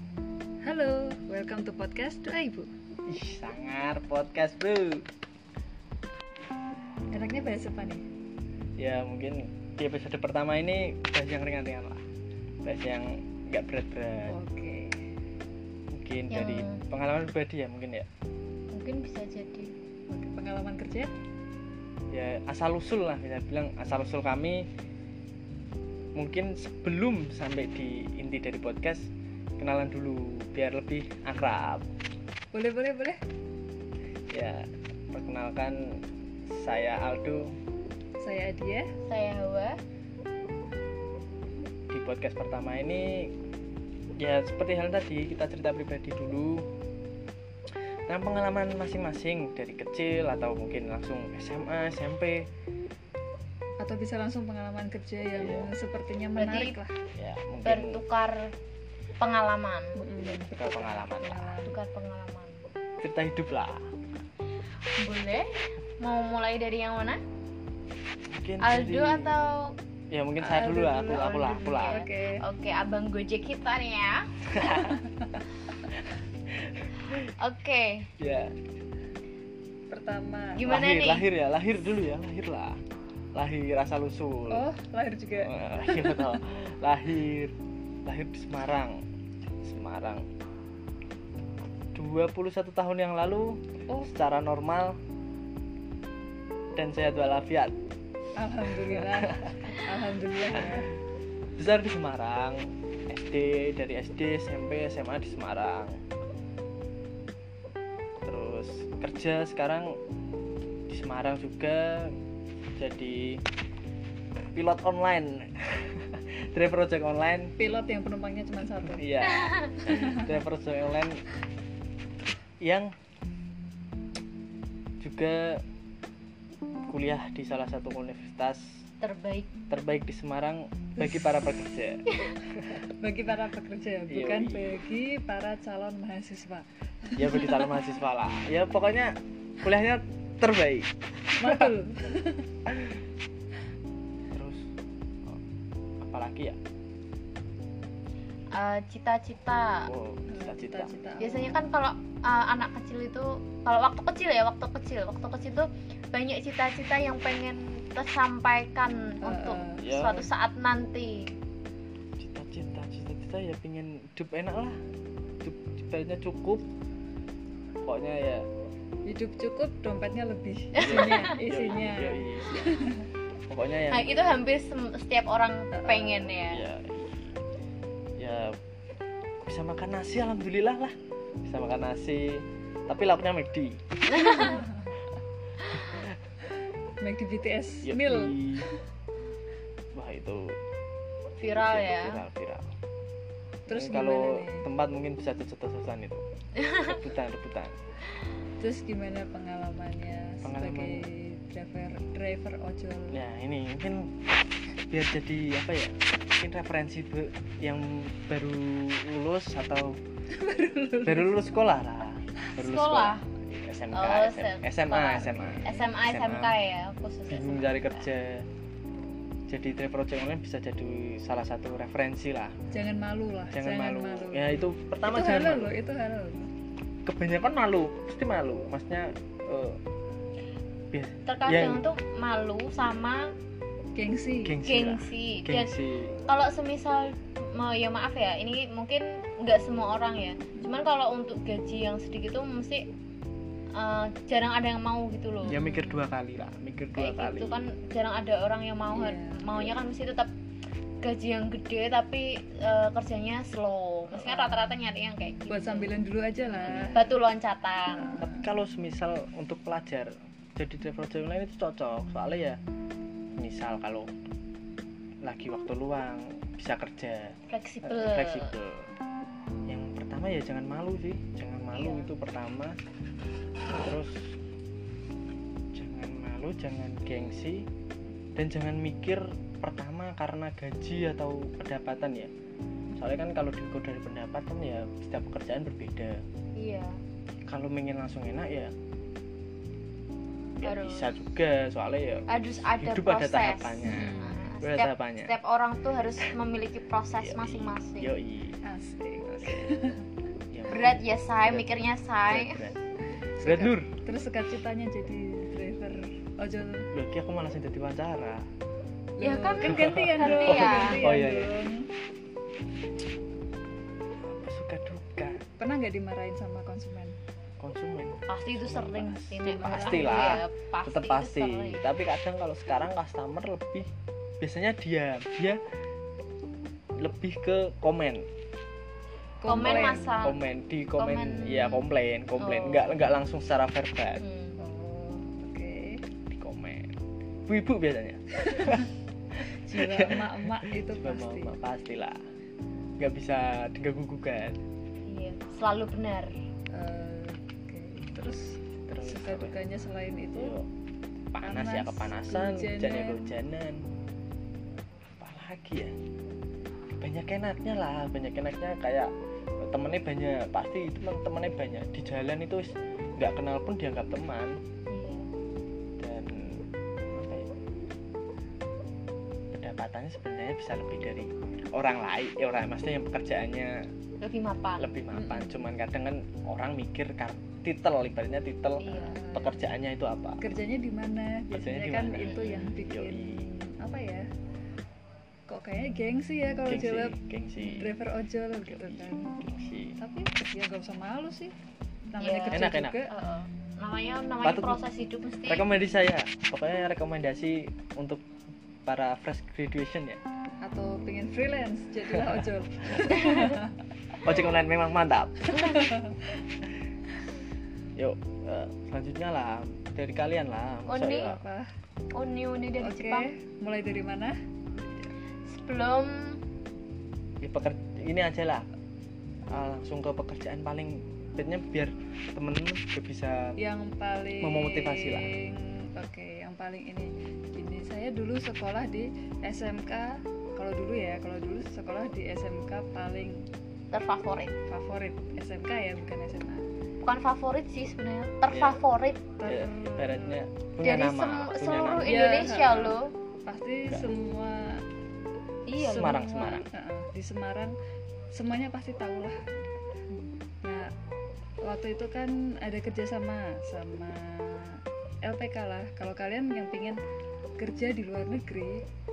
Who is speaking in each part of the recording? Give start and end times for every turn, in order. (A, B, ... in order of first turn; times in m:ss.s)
0:00.6-0:02.7 A
0:03.1-0:05.1 B
0:07.1-0:08.0 A
0:08.8-0:12.0 B
0:12.6-0:14.4 B
0:14.3-0:15.0 A
0:15.9-0:18.1 B
0:16.3-0:16.8 C
0:18.7-0:19.7 C
0:20.1-0:21.1 A
0:22.1-0:24.6 B
0:26.2-0:31.9 B
0:32.5-0:33.2 A
0:34.3-0:37.5 B
0:38.2-0:38.9 A
0:39.1-0:39.8 C
0:41.9-0:43.3 B
0:44.2-0:46.7 B
0:48.1-0:52.5 B
0:53.8-0:56.9 A
0:55.4-0:55.7 B
0:56.4-0:56.8 C
0:57.1-0:58.0 B
0:57.6-0:58.5 C
0:59.2-1:00.0 C
1:00.0-1:01.8 A
1:00.4-1:01.6 B
1:01.6-1:02.6 C
1:03.0-1:03.9 B
1:05.0-1:05.5 C
1:06.0-1:07.2 C
1:08.3-1:09.4 B
1:08.6-1:09.7 C
1:10.1-1:12.1 B
1:10.4-1:12.4 A
1:10.5-1:14.3 C
1:14.5-1:15.0 B
1:14.7-1:15.2 A
1:16.6-1:17.3 B
1:17.4-1:18.1 C
1:18.2-1:18.5 B
1:19.9-1:20.7 A
1:20.6-1:21.3 C
1:20.7-1:22.8 B
1:23.4-1:24.6 B
1:24.5-1:26.4 A
1:25.4-1:27.6 B
1:28.1-1:29.0 B
1:29.6-1:30.2 B
1:31.9-1:35.0 B
1:36.8-1:37.7 B
1:38.4-1:40.9 A
1:39.0-1:39.3 B
1:41.6-1:46.0 B
1:48.2-1:50.0 B
1:50.9-1:52.2 B
1:52.8-1:53.4 B
1:54.5-1:57.5 B
1:57.6-1:59.1 A
1:58.8-2:01.2 B
1:59.2-1:59.8 C
1:59.9-2:00.3 A
2:02.6-2:02.9 B
2:05.0-2:05.6 B
2:06.9-2:08.8 B
2:09.0-2:09.5 C
2:09.7-2:12.8 B
2:11.0-2:11.3 A
2:12.9-2:17.8 A
2:14.1-2:14.8 B
2:17.2-2:20.9 B
2:21.3-2:22.5 A
2:21.4-2:21.7 B
2:24.3-2:24.6 B
2:26.0-2:26.6 B
2:28.5-2:29.9 C
2:29.9-2:31.0 B
2:30.3-2:31.6 A
2:31.2-2:41.3 C
2:39.2-2:39.9 A
2:39.8-2:40.3 B
2:42.2-2:44.8 B
2:45.4-2:46.7 B
2:47.8-2:48.5 B
2:49.1-2:53.1 A
2:50.8-2:51.4 C
2:50.8-2:52.6 B
2:53.5-2:54.2 B
2:53.9-2:56.6 C
2:55.7-2:56.3 A
2:56.5-2:57.1 B
2:58.2-2:58.6 B
2:59.5-3:04.5 B
3:04.1-3:04.6 C
3:04.4-3:04.8 A
3:05.8-3:06.1 B
3:07.0-3:08.5 A
3:07.8-3:08.7 B
3:10.0-3:10.6 B
3:11.4-3:12.2 C
3:11.6-3:12.7 B
3:13.7-3:14.7 A
3:13.7-3:17.8 B
3:18.6-3:23.2 A
3:20.4-3:21.1 B
3:23.1-3:24.1 B
3:24.9-3:30.0 B
3:30.4-3:31.5 A
3:31.0-3:36.6 B
3:32.6-3:33.2 C
3:33.9-3:38.1 C
3:35.3-3:35.9 A
3:37.3-3:38.5 B
3:39.5-3:42.6 B
3:42.7-3:46.5 A
3:43.5-3:45.7 B
3:47.1-3:49.8 B
3:50.9-3:51.8 B
3:51.3-3:53.2 C
3:54.0-3:54.6 A
3:54.4-3:56.2 B
3:54.6-3:55.7 C
3:56.2-4:02.9 C
4:03.8-4:06.1 C
4:05.5-4:07.6 B
4:07.0-4:10.3 C
4:08.9-4:09.4 A
4:09.5-4:09.8 B
4:11.0-4:16.0 C
4:14.1-4:14.6 B
4:15.5-4:17.0 A
4:16.6-4:17.2 B
4:16.9-4:18.2 C
4:17.9-4:18.5 A
4:18.2-4:22.6 B
4:23.4-4:24.1 B
4:25.2-4:28.9 B
4:27.5-4:28.5 C
4:29.7-4:32.8 B
4:31.7-4:32.1 C
4:33.7-4:34.3 B
4:35.8-4:37.7 B
4:38.4-4:42.3 B
4:43.0-4:46.2 B
4:46.6-4:47.0 C
4:47.5-4:48.7 B
4:50.6-4:55.3 B
4:50.6-4:51.1 C
4:52.3-4:58.1 C
4:53.8-4:54.4 A
4:57.2-4:58.6 B
4:58.6-5:00.1 A
4:59.2-4:59.7 B
5:00.5-5:02.8 B
5:00.7-5:02.6 C
5:03.4-5:06.9 A
5:03.4-5:03.9 B
5:06.9-5:08.4 B
5:09.2-5:11.9 A
5:09.2-5:11.0 C
5:09.7-5:11.5 B
5:14.3-5:15.4 B
5:15.6-5:17.2 A
5:17.6-5:23.9 B
5:18.3-5:21.8 C
5:19.4-5:20.4 A
5:24.4-5:25.6 B
5:27.0-5:28.3 B
5:29.4-5:30.2 A
5:29.5-5:30.4 C
5:29.6-5:34.2 B
5:31.0-5:33.0 C
5:34.2-5:34.6 C
5:34.6-5:36.0 A
5:36.3-5:37.0 B
5:37.5-5:38.9 B
5:38.5-5:38.8 A
5:39.6-5:41.5 A
5:39.7-5:42.2 B
5:43.0-5:44.6 B
5:45.1-5:46.4 C
5:46.7-5:50.6 A
5:48.9-5:49.6 B
5:50.4-5:50.6 B
5:51.3-5:53.8 B
5:51.4-5:53.4 A
5:55.2-5:56.0 B
5:57.0-5:59.1 B
5:59.6-6:04.6 B
6:04.9-6:05.3 C
6:06.0-6:07.5 B
6:09.5-6:13.9 B
6:14.2-6:15.0 C
6:14.8-6:20.4 B
6:15.1-6:15.7 A
6:18.8-6:19.2 C
6:18.9-6:19.7 A
6:20.4-6:24.2 A
6:21.5-6:23.5 B
6:22.2-6:22.8 C
6:25.5-6:31.5 A
6:26.7-6:27.9 B
6:28.6-6:30.0 B
6:32.1-6:33.1 A
6:32.2-6:35.6 C
6:32.5-6:33.0 B
6:34.4-6:34.8 B
6:35.5-6:38.2 B
6:38.9-6:40.2 B
6:40.6-6:43.8 A
6:43.2-6:43.6 C
6:44.2-6:45.6 B
6:45.6-6:45.9 C
6:45.6-6:46.0 A
6:48.0-6:51.4 B
6:50.9-6:51.4 C
6:51.2-6:51.7 A
6:52.1-6:53.3 C
6:52.8-6:54.4 A
6:55.5-6:56.1 C
6:57.4-6:58.6 B
6:59.5-7:03.6 B
7:03.6-7:13.5 A
7:04.4-7:05.3 B
7:13.9-7:14.6 C
7:14.7-7:16.7 A
7:17.0-7:19.2 C
7:18.5-7:18.8 B
7:19.4-7:20.4 A
7:19.5-7:22.2 B
7:20.8-7:23.1 C
7:22.0-7:24.8 A
7:25.7-7:26.2 C
7:25.8-7:26.6 B
7:25.9-7:27.7 A
7:28.4-7:29.4 A
7:30.6-7:30.9 A
7:31.6-7:37.0 A
7:37.6-7:38.8 A